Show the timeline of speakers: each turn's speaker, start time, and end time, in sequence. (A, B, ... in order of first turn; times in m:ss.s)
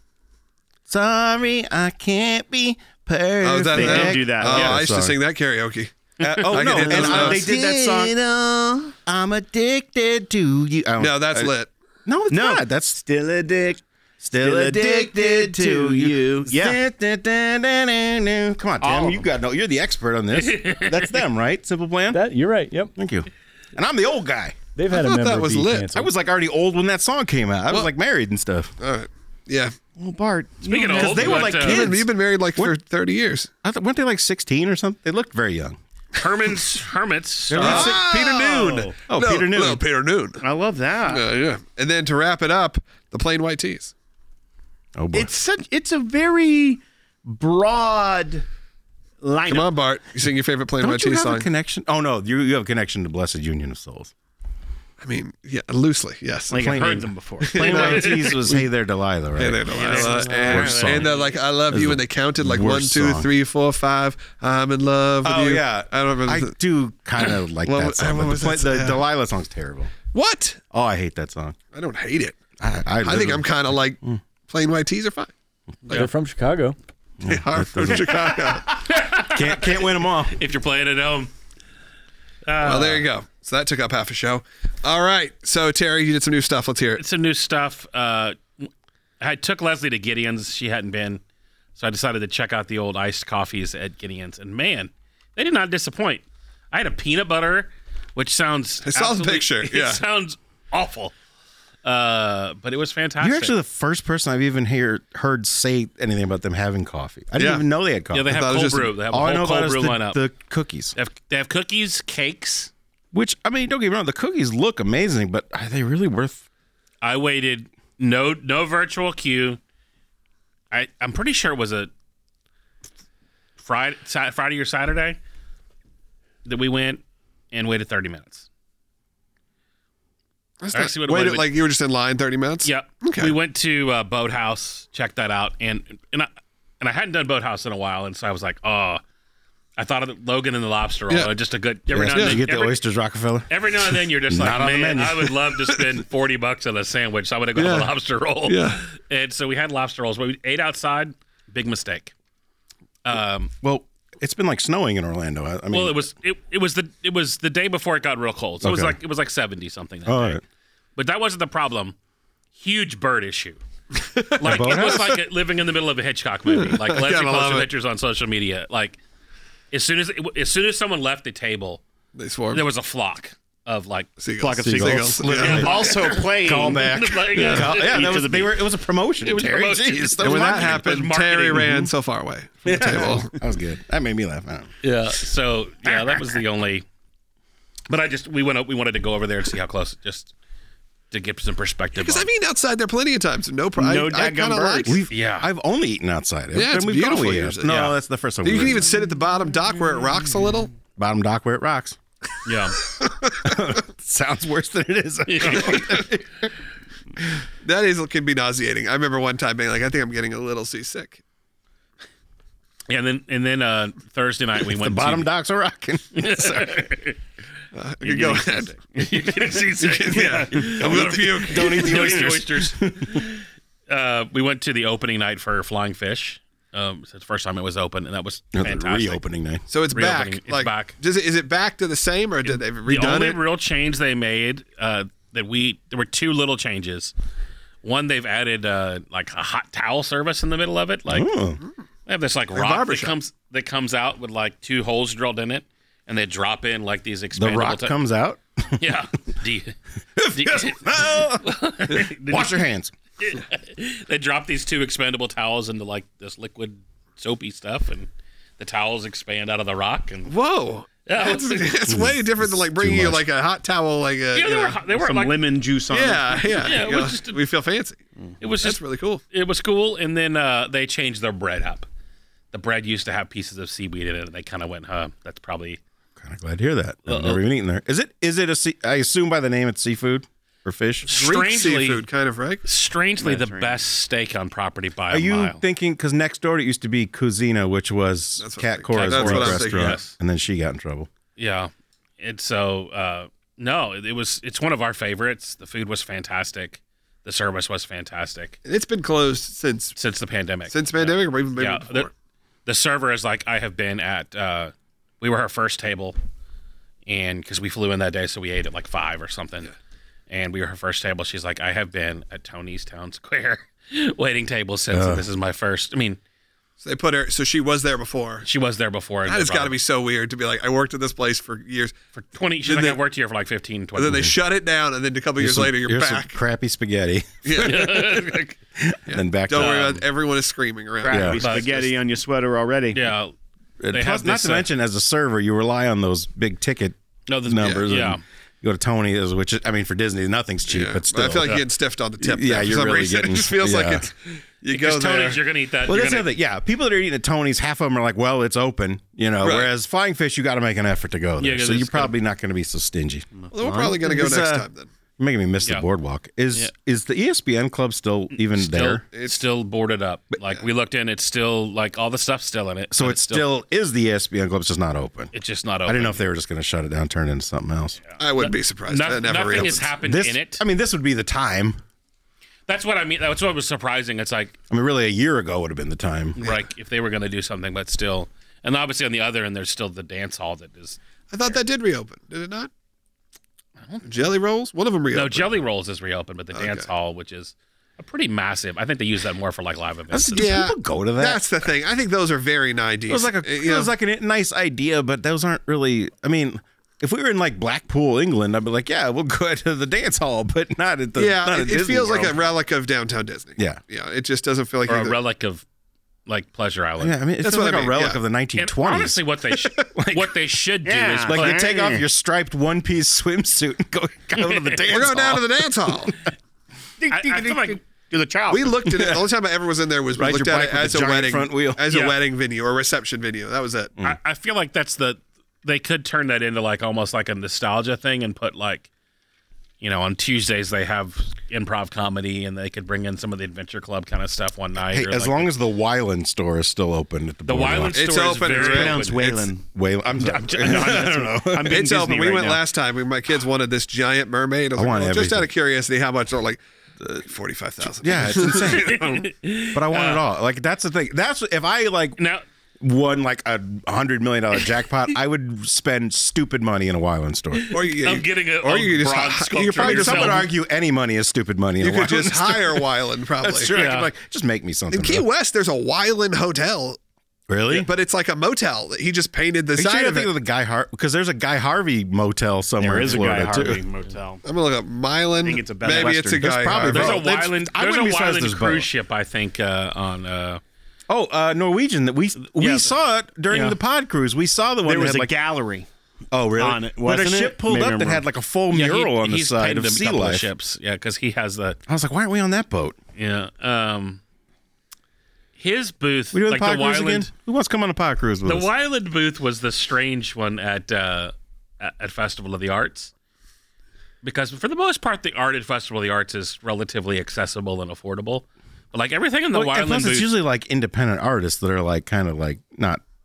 0:00.9-0:05.2 A
0:03.4-0:05.9 B
0:03.7-0:04.8 C
0:06.2-0:08.2 A
0:06.5-0:07.4 B
0:06.7-0:09.0 C
0:09.1-0:11.5 A
0:11.0-0:11.7 B
0:12.1-0:13.0 A
0:12.3-0:16.8 C
0:14.2-0:22.3 A
0:18.8-0:19.3 C
0:20.4-0:21.2 D
0:22.1-0:22.9 E
0:23.0-0:24.6 A
0:24.8-0:26.1 E
0:24.9-0:25.9 B
0:25.9-0:28.7 A
0:28.8-0:29.7 B
0:30.0-0:31.4 C
0:30.6-0:31.9 D
0:30.9-0:32.8 A
0:31.2-0:33.5 B
0:33.6-0:35.8 A
0:36.2-0:37.8 D
0:37.5-0:38.1 A
0:37.6-0:40.4 B
0:37.6-0:39.0 C
0:39.1-0:39.8 A
0:40.4-0:41.2 C
0:41.0-0:43.9 B
0:45.0-0:45.3 A
0:45.1-0:48.4 C
0:49.2-0:49.7 C
0:49.5-0:51.5 B
0:50.8-0:54.1 A
0:55.0-0:58.4 B
0:56.5-0:58.6 C
0:56.6-1:01.1 A
0:59.4-1:06.5 B
0:59.7-1:01.3 C
1:01.7-1:03.3 A
1:05.2-1:09.9 A
1:07.6-1:09.0 B
1:10.1-1:10.6 B
1:10.7-1:11.6 A
1:11.7-1:12.4 B
1:12.6-1:14.2 A
1:13.0-1:15.3 B
1:15.9-1:16.8 E
1:17.2-1:18.6 A
1:17.3-1:18.7 B
1:18.8-1:21.3 D
1:19.1-1:20.4 A
1:22.5-1:23.0 D
1:22.6-1:27.0 B
1:27.0-1:28.7 D
1:29.2-1:31.2 D
1:31.8-1:41.1 D
1:38.8-1:40.0 B
1:41.8-1:43.6 D
1:43.2-1:48.4 A
1:47.4-1:47.6 B
1:48.1-1:50.2 D
1:48.2-1:48.9 B
1:49.1-1:51.0 A
1:51.0-1:52.7 D
1:53.1-1:56.4 A
1:57.0-1:59.6 D
2:00.7-2:01.9 D
2:03.6-2:05.2 D
2:06.4-2:08.5 D
2:10.6-2:13.4 B
2:10.7-2:11.5 D
2:12.6-2:19.0 D
2:19.8-2:22.8 D
2:21.9-2:25.4 A
2:22.1-2:22.4 B
2:23.5-2:32.1 D
2:27.6-2:27.9 B
2:28.4-2:28.8 B
2:33.0-2:33.5 D
2:33.6-2:36.0 A
2:35.7-2:40.4 D
2:38.6-2:39.0 A
2:40.1-2:40.4 A
2:41.0-2:42.0 D
2:42.6-2:43.6 D
2:44.0-2:45.1 B
2:44.4-2:49.0 D
2:44.4-2:45.2 A
2:46.5-2:47.7 B
2:49.7-2:51.8 D
2:52.2-2:52.6 B
2:52.5-2:54.1 D
2:54.2-2:55.8 B
2:54.4-2:57.0 C
2:54.7-2:55.8 A
2:55.4-2:58.3 D
2:56.4-3:00.8 A
2:57.4-2:57.6 B
2:57.5-2:58.6 C
2:59.2-3:01.6 D
3:00.2-3:03.4 B
3:01.5-3:01.9 A
3:02.6-3:04.7 A
3:04.8-3:06.8 D
3:07.9-3:10.3 D
3:11.1-3:12.3 D
3:12.0-3:15.0 B
3:13.8-3:15.0 C
3:14.9-3:19.0 A
3:15.1-3:15.5 D
3:16.5-3:17.8 B
3:17.6-3:18.0 D
3:18.4-3:20.7 B
3:21.0-3:22.0 A
3:22.4-3:22.8 D
3:23.4-3:26.5 A
3:25.3-3:26.1 D
3:27.6-3:31.2 B
3:32.9-3:35.3 D
3:34.7-3:36.9 A
3:36.2-3:37.2 D
3:37.7-3:38.7 B
3:38.0-3:49.2 D
3:39.8-3:42.4 B
3:40.7-3:43.3 A
3:48.5-3:49.6 A
3:49.7-3:53.4 B
3:49.9-3:51.0 D
3:52.5-3:57.1 D
3:57.8-4:01.3 D
4:01.1-4:01.6 A
4:02.1-4:08.0 D
4:02.5-4:03.2 B
4:07.4-4:08.9 A
4:08.8-4:09.8 D
4:10.2-4:12.9 A
4:10.3-4:12.6 D
4:13.2-4:20.3 D
4:20.3-4:24.8 B
4:21.0-4:21.8 D
4:21.9-4:23.3 A
4:24.4-4:25.5 D
4:24.9-4:26.7 C
4:25.9-4:28.0 B
4:26.6-4:27.4 D
4:28.4-4:28.8 D
4:28.6-4:29.2 B
4:29.3-4:31.9 D
4:32.5-4:35.8 D
4:36.2-4:41.1 A
4:37.1-4:37.4 D
4:41.1-4:42.0 D
4:41.1-4:42.6 B
4:42.6-4:45.6 D
4:43.2-4:43.8 C
4:45.1-4:51.1 A
4:48.4-4:50.0 B
4:48.9-4:50.2 D
4:51.4-4:58.6 D
4:58.6-5:00.0 B
5:00.0-5:02.1 D
5:00.7-5:02.1 B
5:02.7-5:06.2 D
5:07.1-5:09.7 D
5:10.3-5:16.2 D
5:14.9-5:15.2 A
5:16.8-5:18.5 B
5:18.4-5:19.8 D
5:19.2-5:22.0 B
5:22.2-5:24.3 D
5:22.6-5:23.0 B
5:24.0-5:26.4 B
5:25.4-5:28.1 A
5:27.4-5:27.9 B
5:27.6-5:28.6 D
5:28.8-5:30.0 A
5:29.1-5:31.4 B
5:29.5-5:30.0 D
5:31.0-5:33.1 C
5:31.1-5:31.4 A
5:31.4-5:31.9 D
5:32.9-5:33.3 D
5:33.8-5:41.6 A
5:33.9-5:34.7 D
5:37.3-5:38.2 D
5:40.7-5:45.4 B
5:42.2-5:44.1 A
5:44.7-5:46.3 D
5:45.9-5:53.3 A
5:49.4-5:49.7 B
5:51.4-5:52.2 D
5:53.5-5:54.9 B
5:53.6-5:53.9 C
5:53.9-5:54.7 A
5:55.2-5:59.0 A
5:58.4-6:03.5 D
5:59.1-5:59.4 B
6:02.9-6:05.3 A
6:05.3-6:06.2 D
6:05.8-6:08.0 A
6:08.2-6:09.9 B
6:08.4-6:10.6 D
6:09.6-6:11.8 A
6:12.7-6:14.6 D
6:14.7-6:16.4 A
6:16.4-6:21.0 D
6:21.3-6:22.7 B
6:23.8-6:24.3 D
6:24.0-6:25.6 B
6:25.1-6:30.6 D
6:26.5-6:26.9 B
6:30.1-6:31.4 A
6:30.4-6:33.9 B
6:33.1-6:42.4 A
6:41.2-6:45.2 B
6:44.9-6:45.6 D
6:46.3-6:47.2 D
6:47.0-6:50.3 A
6:47.4-6:48.2 B
6:48.6-6:51.7 D
6:50.8-6:52.0 C
6:51.3-6:56.1 A
6:54.4-6:55.0 D
6:54.9-6:56.2 B
6:57.0-6:58.8 C
6:57.1-6:57.8 D
6:58.5-7:03.9 B
6:58.9-6:59.2 A
7:00.2-7:01.8 A
7:01.9-7:02.2 D
7:04.0-7:08.9 D
7:09.8-7:15.5 D
7:14.8-7:18.0 A
7:17.4-7:19.2 D
7:17.9-7:19.5 B
7:18.5-7:22.6 C
7:19.7-7:21.8 A
7:21.6-7:26.6 B
7:24.8-7:25.5 A
7:27.2-7:29.0 B
7:27.8-7:32.2 A
7:28.6-7:30.2 D
7:32.2-7:32.4 D
7:32.8-7:37.7 A
7:37.5-7:40.5 D
7:37.7-7:40.5 B
7:39.8-7:42.9 A
7:41.8-7:43.8 B
7:43.4-7:45.3 A
7:43.7-7:44.1 D
7:44.9-7:47.0 B
7:47.5-7:47.9 A
7:47.7-7:50.3 B
7:49.8-7:53.8 A
7:52.8-7:54.4 C
7:54.4-7:57.2 B
7:55.4-7:56.6 C
7:55.9-7:58.9 A
7:56.9-8:00.6 D
8:01.1-8:05.4 A
8:02.5-8:02.9 D
8:03.5-8:03.8 D
8:04.8-8:05.9 C
8:06.3-8:10.5 A
8:06.6-8:08.2 C
8:08.7-8:11.8 D
8:11.9-8:13.0 A
8:13.2-8:14.2 D
8:15.6-8:17.3 D
8:16.3-8:18.7 A
8:18.4-8:23.1 D
8:24.2-8:30.3 D
8:29.5-8:33.0 A